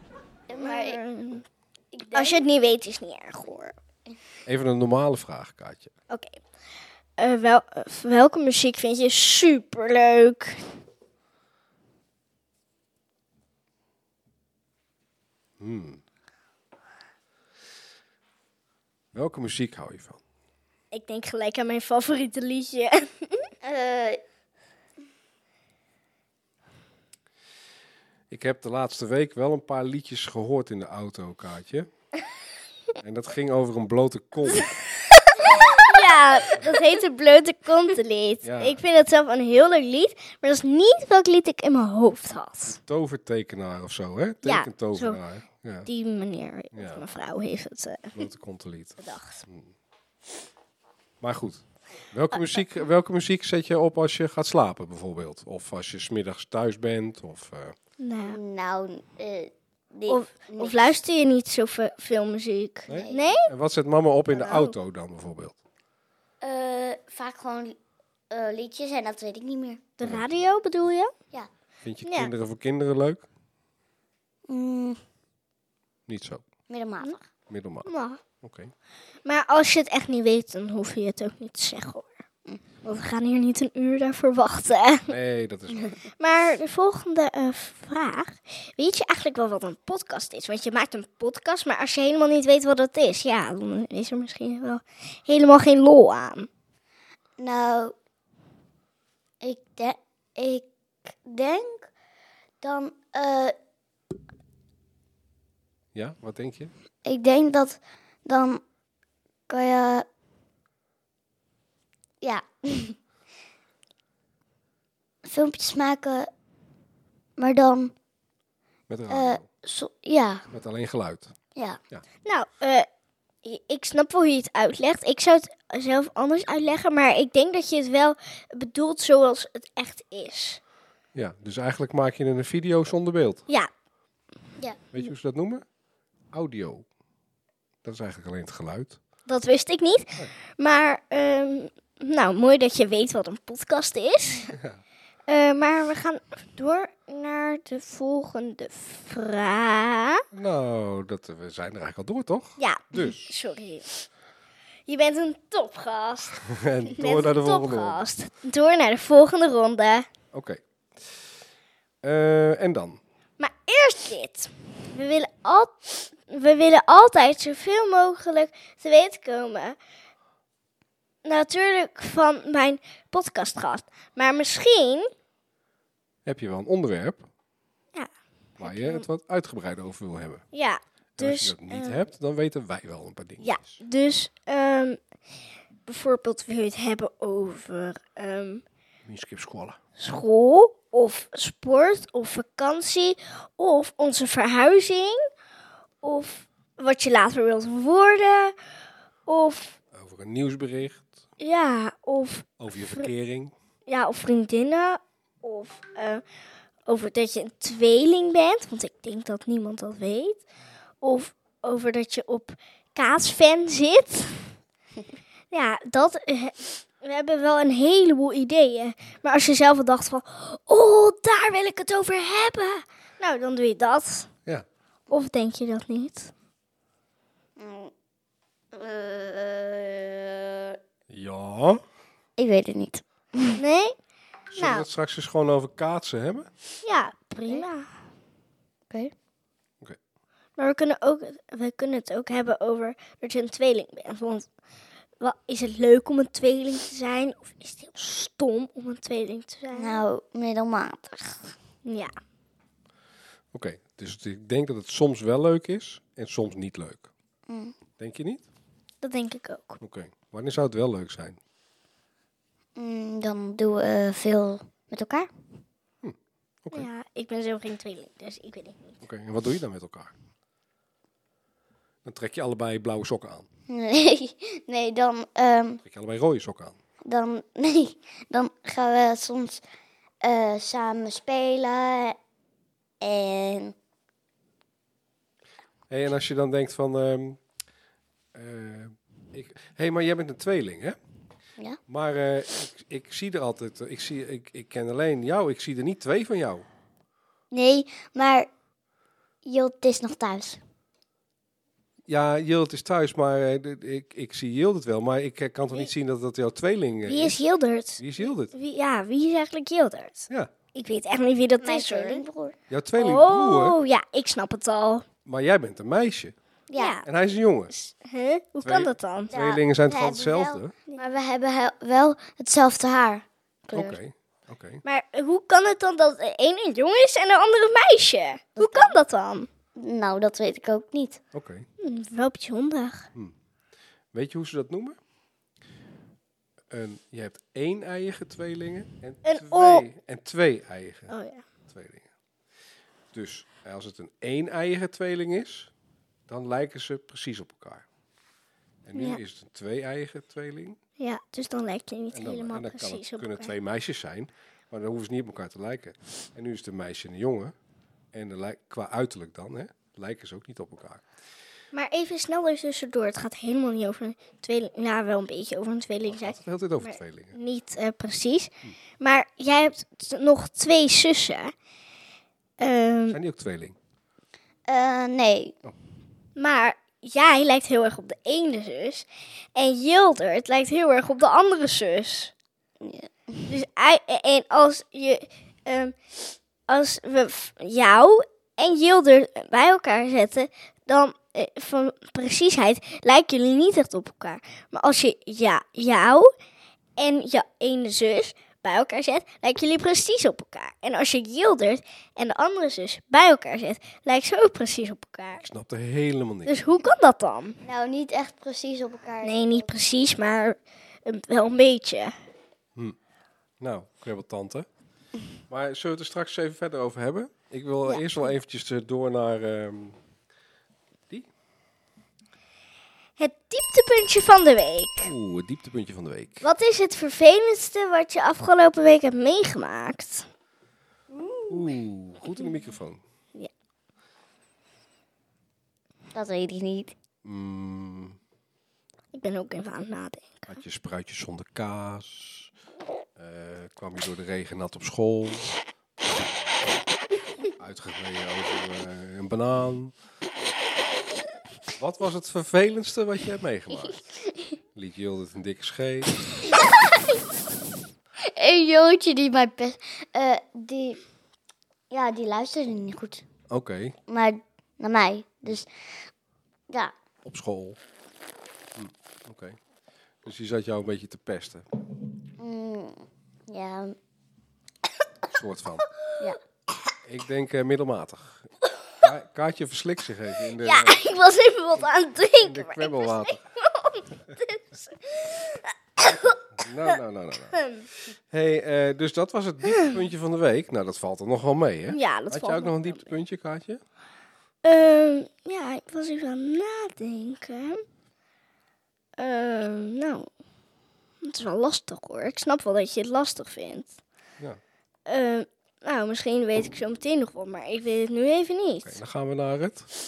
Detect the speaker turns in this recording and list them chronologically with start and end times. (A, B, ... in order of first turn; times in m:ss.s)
0:00.5-0:01.0 A
0:00.6-0:01.4 B
0:01.9-0:02.4 A
0:02.1-0:03.8 B
0:04.4-0:05.9 C
0:06.1-0:06.4 B
0:07.2-0:10.6 B
0:15.6-0:16.0 C
0:19.1-0:20.2 C
0:20.9-0:23.5 B
0:23.6-0:24.2 A
0:28.3-0:31.9 C
0:33.0-0:34.7 C
0:34.5-0:42.8 B
0:35.6-0:36.0 A
0:38.4-0:38.8 C
0:42.6-0:45.9 C
0:44.4-0:45.2 B
0:45.8-0:48.2 B
0:46.7-0:47.0 C
0:48.1-0:49.7 C
0:49.0-0:49.4 B
0:51.2-0:57.8 C
0:58.0-0:58.4 B
0:58.3-1:01.0 A
1:00.1-1:03.5 B
1:02.9-1:05.6 C
1:02.9-1:03.2 A
1:04.3-1:04.7 B
1:06.4-1:07.8 A
1:08.3-1:09.9 A
1:10.0-1:11.1 B
1:10.0-1:10.4 C
1:11.8-1:13.2 C
1:12.0-1:12.3 B
1:14.5-1:15.0 A
1:16.1-1:16.4 C
1:16.7-1:17.2 A
1:17.5-1:17.9 C
1:17.8-1:18.2 B
1:18.4-1:18.7 C
1:19.2-1:22.1 B
1:22.8-1:25.1 B
1:25.1-1:26.0 C
1:26.2-1:36.5 B
1:37.4-1:37.9 A
1:39.4-1:41.9 A
1:42.6-1:43.5 A
1:45.9-1:46.7 C
1:47.0-1:48.6 A
1:49.5-1:50.0 A
1:52.2-1:53.0 A
1:55.2-1:56.3 A
1:57.4-1:57.9 A
1:58.9-1:59.4 C
1:59.1-2:00.5 A
2:00.5-2:01.3 C
2:02.2-2:02.9 B
2:03.4-2:10.6 B
2:11.1-2:13.4 C
2:14.6-2:14.8 A
2:14.9-2:15.6 C
2:16.3-2:16.8 C
2:17.8-2:19.0 C
2:19.2-2:24.6 B
2:24.5-2:24.8 C
2:25.3-2:30.2 B
2:30.3-2:33.3 C
2:32.6-2:34.0 B
2:34.9-2:40.1 B
2:36.4-2:38.0 C
2:40.3-2:41.2 C
2:42.0-2:43.0 C
2:43.4-2:49.8 B
2:51.2-2:55.1 B
2:56.2-2:57.3 C
2:58.6-3:00.4 C
2:58.6-2:59.0 B
3:00.5-3:02.0 B
3:01.2-3:03.8 C
3:03.4-3:05.0 B
3:05.8-3:08.6 B
3:09.0-3:09.8 C
3:10.0-3:15.3 B
3:16.0-3:18.5 B
3:19.3-3:19.8 B
3:19.9-3:21.2 C
3:21.4-3:23.1 B
3:22.6-3:23.5 C
3:23.9-3:26.2 B
3:26.8-3:30.4 B
3:31.0-3:34.5 B
3:35.5-3:44.3 B
3:45.1-3:46.3 B
3:47.6-3:47.9 A
3:48.7-3:50.8 A
3:51.1-3:51.8 C
3:52.4-3:53.6 A
3:53.5-3:53.9 B
3:54.5-3:56.5 C
3:54.6-3:54.8 B
3:56.8-3:57.9 B
4:00.6-4:04.5 B
4:05.2-4:10.0 B
4:09.7-4:11.5 A
4:11.8-4:12.1 B
4:13.5-4:17.1 C
4:17.5-4:17.7 A
4:18.0-4:18.4 C
4:19.0-4:19.8 B
4:19.8-4:21.4 C
4:22.8-4:25.3 A
4:26.0-4:26.9 C
4:26.7-4:28.9 B
4:29.0-4:30.1 C
4:32.0-4:33.5 C
4:33.7-4:35.8 A
4:35.8-4:36.8 C
4:37.0-4:39.6 A
4:40.2-4:42.2 A
4:43.0-4:43.7 A
4:45.9-4:47.4 C
4:48.3-4:51.0 C
4:51.9-4:56.6 C
4:57.5-4:58.5 A
4:59.4-5:00.6 A
5:02.1-5:07.4 C
5:07.0-5:12.2 B
5:08.0-5:08.5 C
5:11.6-5:12.6 A
5:12.7-5:13.8 C
5:13.0-5:15.0 B
5:15.2-5:16.3 C
5:16.7-5:17.0 A
5:16.8-5:17.0 B
5:17.0-5:17.7 C
5:17.7-5:19.3 B
5:18.6-5:20.7 C
5:19.3-5:24.0 A
5:23.7-5:24.8 C
5:24.8-5:29.5 B
5:28.6-5:29.0 A
5:29.8-5:31.2 A
5:31.3-5:31.7 C
5:31.8-5:33.1 B
5:34.1-5:35.0 C
5:36.7-5:41.1 C
5:39.2-5:39.8 B
5:41.1-5:41.4 B
5:41.7-5:42.1 C
5:43.1-5:45.7 C
5:46.3-5:47.8 C
5:48.8-5:50.8 C
5:48.9-5:49.2 B
5:51.0-5:53.5 B
5:52.1-5:57.5 C
5:58.1-6:01.0 C
6:01.7-6:11.5 B
6:06.1-6:07.3 C
6:12.6-6:13.2 B
6:13.1-6:13.8 C
6:14.7-6:15.6 A
6:16.4-6:22.3 B
6:22.8-6:23.5 A
6:23.5-6:26.0 B
6:26.7-6:36.3 B
6:37.0-6:45.4 B
6:45.4-6:46.6 C
6:46.4-6:47.6 B
6:47.6-6:49.7 A
6:49.2-6:52.1 B
6:53.6-6:54.7 C
6:55.5-7:00.0 C
7:03.2-7:05.1 B
7:05.0-7:06.4 C
7:06.4-7:10.3 B
7:11.1-7:11.7 A
7:11.5-7:13.0 C
7:16.1-7:16.9 A
7:17.2-7:18.2 C
7:19.1-7:20.5 B
7:20.5-7:22.5 C
7:23.2-7:26.7 C
7:27.5-7:29.9 C
7:31.7-7:34.0 C
7:34.7-7:36.2 C
7:36.5-7:37.0 A
7:38.2-7:41.0 A
7:41.9-7:43.2 A
7:43.5-7:44.0 C
7:44.1-7:45.7 A
7:47.2-7:47.8 C
7:48.7-7:49.6 C
7:50.2-7:51.6 C
7:52.4-7:54.0 A
7:55.3-7:55.9 C
7:57.0-7:58.5 C
7:59.0-8:01.0 C
8:00.6-8:06.4 B
8:02.4-8:03.4 C
8:06.0-8:07.6 C
8:07.5-8:07.9 B
8:08.3-8:13.8 C
8:09.7-8:10.0 B
8:11.9-8:13.1 B
8:14.6-8:17.8 B
8:19.2-8:20.3 B
8:21.2-8:24.0 B
8:25.1-8:29.0 B
8:28.8-8:29.9 C